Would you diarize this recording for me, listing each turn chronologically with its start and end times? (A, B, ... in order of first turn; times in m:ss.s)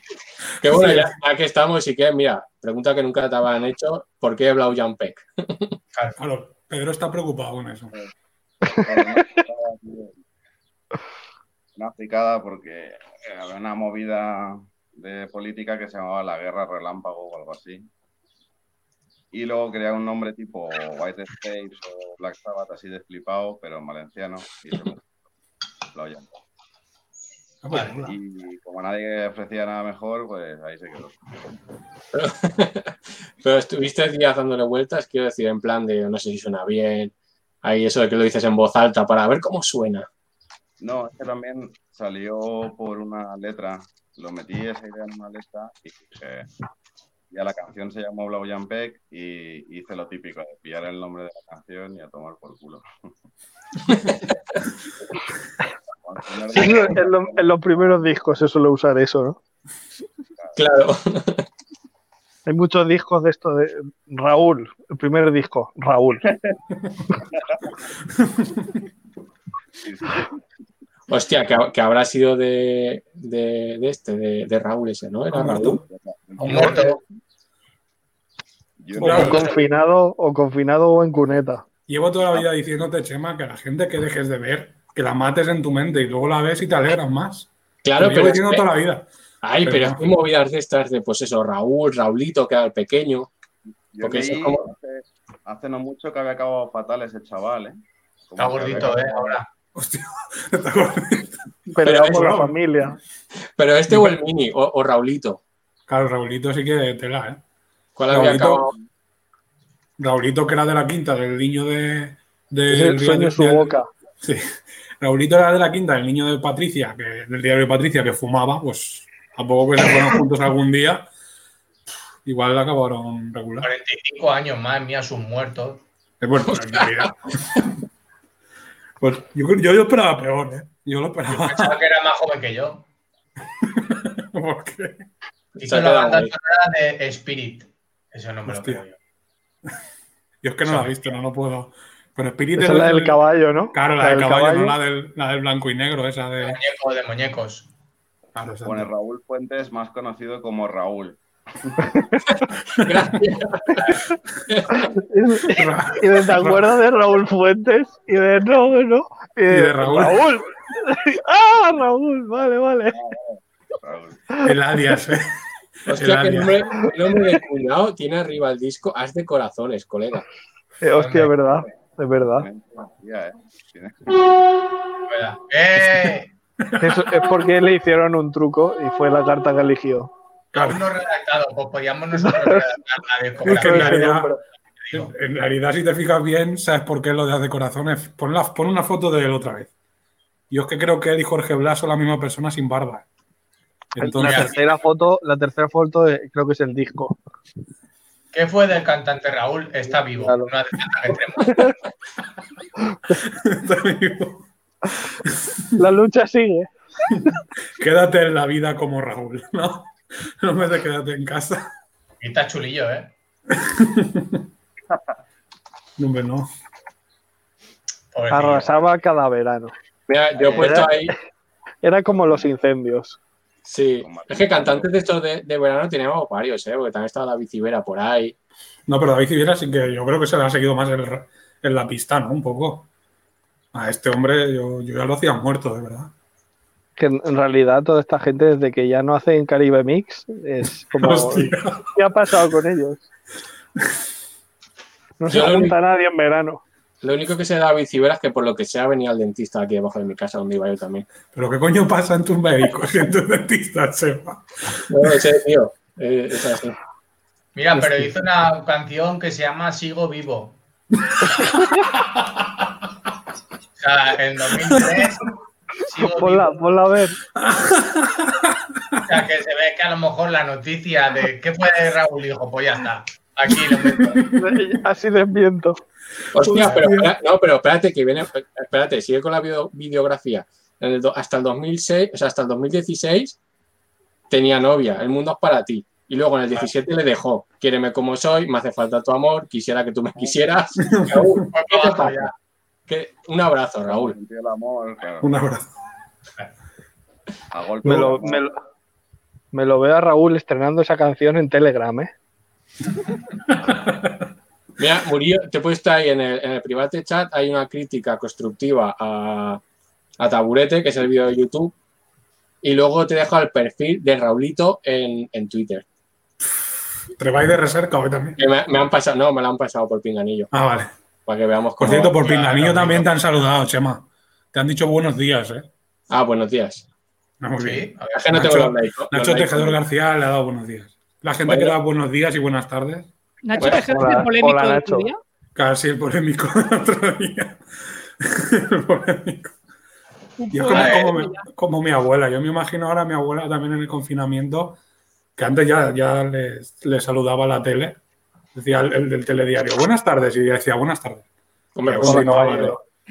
0:00.6-0:05.7 A
0:06.2-0:07.9 B
0:08.7-0:10.2 C
0:11.8-0:17.9 C
0:19.3-0:25.0 C
0:25.9-0:26.3 C
0:27.6-0:28.1 B
0:28.0-0:31.2 C
0:32.1-0:37.1 A
0:37.6-0:40.1 A
0:40.8-0:46.5 C
0:47.3-0:52.8 C
0:56.0-0:57.9 C
0:56.5-0:59.4 D
1:00.6-1:01.4 A
1:02.4-1:06.2 D
1:06.2-1:06.6 C
1:07.3-1:07.8 C
1:08.2-1:08.7 B
1:09.8-1:10.2 C
1:11.1-1:15.8 A
1:15.3-1:15.8 B
1:15.9-1:17.0 C
1:16.4-1:17.0 A
1:16.4-1:16.9 E
1:18.8-1:19.6 C
1:19.0-1:19.4 B
1:19.0-1:21.6 D
1:21.9-1:29.1 B
1:27.8-1:28.7 A
1:29.4-1:33.3 A
1:29.6-1:30.1 B
1:33.9-1:37.8 C
1:34.0-1:34.6 A
1:38.3-1:39.4 C
1:38.4-1:39.4 E
1:39.7-1:41.4 B
1:41.7-1:43.0 D
1:41.8-1:42.3 A
1:41.9-1:42.5 B
1:43.6-1:45.4 A
1:43.9-1:44.1 B
1:45.9-1:47.4 B
1:48.0-1:48.7 A
1:48.1-1:48.7 B
1:50.0-1:54.5 B
1:52.7-1:53.9 D
1:55.0-2:01.1 B
2:02.2-2:03.7 B
2:03.6-2:05.8 E
2:06.2-2:07.2 B
2:09.0-2:11.8 B
2:11.3-2:12.8 E
2:13.6-2:15.0 B
2:15.6-2:16.3 A
2:15.6-2:19.0 E
2:18.4-2:18.8 B
2:20.4-2:23.2 B
2:20.6-2:20.9 E
2:22.6-2:24.7 D
2:23.7-2:26.6 B
2:26.4-2:27.7 E
2:28.3-2:28.9 B
2:28.6-2:31.9 C
2:32.8-2:33.0 B
2:32.8-2:33.8 A
2:34.7-2:43.0 D
2:35.5-2:36.7 B
2:39.5-2:40.2 B
2:42.9-2:44.2 C
2:44.4-2:45.2 B
2:45.9-2:50.2 A
2:45.9-2:46.5 B
2:50.8-2:52.4 D
2:50.9-2:51.3 E
2:51.4-2:51.7 C
2:52.3-2:54.2 C
2:55.1-2:56.3 E
2:56.6-2:57.1 B
2:56.8-3:00.1 D
3:00.5-3:04.0 E
3:00.5-3:00.8 B
3:02.2-3:02.6 D
3:03.4-3:04.3 B
3:03.4-3:04.4 D
3:04.8-3:05.1 E
3:04.9-3:09.7 B
3:10.5-3:13.0 B
3:13.9-3:14.5 B
3:14.0-3:17.2 D
3:14.2-3:14.6 E
3:18.3-3:21.5 E
3:20.2-3:20.5 D
3:21.4-3:21.8 D
3:22.9-3:23.2 D
3:23.3-3:24.4 B
3:25.3-3:25.6 B
3:25.8-3:26.7 D
3:27.8-3:31.7 B
3:32.2-3:33.1 E
3:33.5-3:34.4 B
3:36.0-3:36.5 B
3:38.1-3:38.7 E
3:38.3-3:39.7 D
3:40.1-3:41.1 A
3:40.4-3:40.9 C
3:40.6-3:41.0 D
3:41.8-3:43.2 D
3:43.6-3:48.3 A
3:44.0-3:44.9 C
3:48.9-3:52.9 B
3:53.7-3:56.1 B
3:57.0-4:03.0 D
4:00.9-4:01.8 B
4:05.2-4:06.6 D
4:05.3-4:05.7 A
4:07.0-4:11.0 A
4:11.3-4:15.1 B
4:14.9-4:16.8 A
4:17.5-4:20.6 E
4:17.8-4:18.0 D
4:21.2-4:22.4 B
4:23.8-4:26.5 E
4:24.6-4:25.0 B
4:26.1-4:27.2 D
4:27.4-4:29.0 B
4:29.0-4:34.2 E
4:33.5-4:34.6 B
4:34.3-4:35.8 D
4:36.3-4:43.4 A
4:36.4-4:37.1 B
4:44.3-4:52.3 A
4:50.8-4:51.4 B
4:51.5-4:52.3 E
4:52.9-4:54.2 A
4:53.9-4:55.3 C
4:55.2-4:55.7 B
4:57.5-4:58.4 C
4:57.8-4:58.5 D
4:59.5-5:02.1 D
5:03.5-5:04.3 B
5:04.8-5:09.6 A
5:10.2-5:11.7 A
5:12.6-5:15.8 A
5:17.2-5:18.4 B
5:18.4-5:20.5 A
5:20.5-5:20.9 B
5:21.2-5:22.1 A
5:21.8-5:25.7 B
5:22.1-5:23.1 E
5:26.1-5:26.8 A
5:27.4-5:33.1 B
5:27.6-5:28.2 E
5:28.1-5:29.8 A
5:31.5-5:31.7 A
5:33.4-5:35.2 F
5:33.6-5:33.8 A
5:33.7-5:35.1 D
5:35.5-5:37.6 B
5:38.2-5:39.5 B
5:40.4-5:41.4 F
5:40.5-5:44.8 B
5:40.7-5:41.1 E
5:45.4-5:48.0 B
5:48.5-5:51.2 B
5:51.7-5:52.8 A
5:51.8-5:52.8 B
5:52.0-5:52.8 D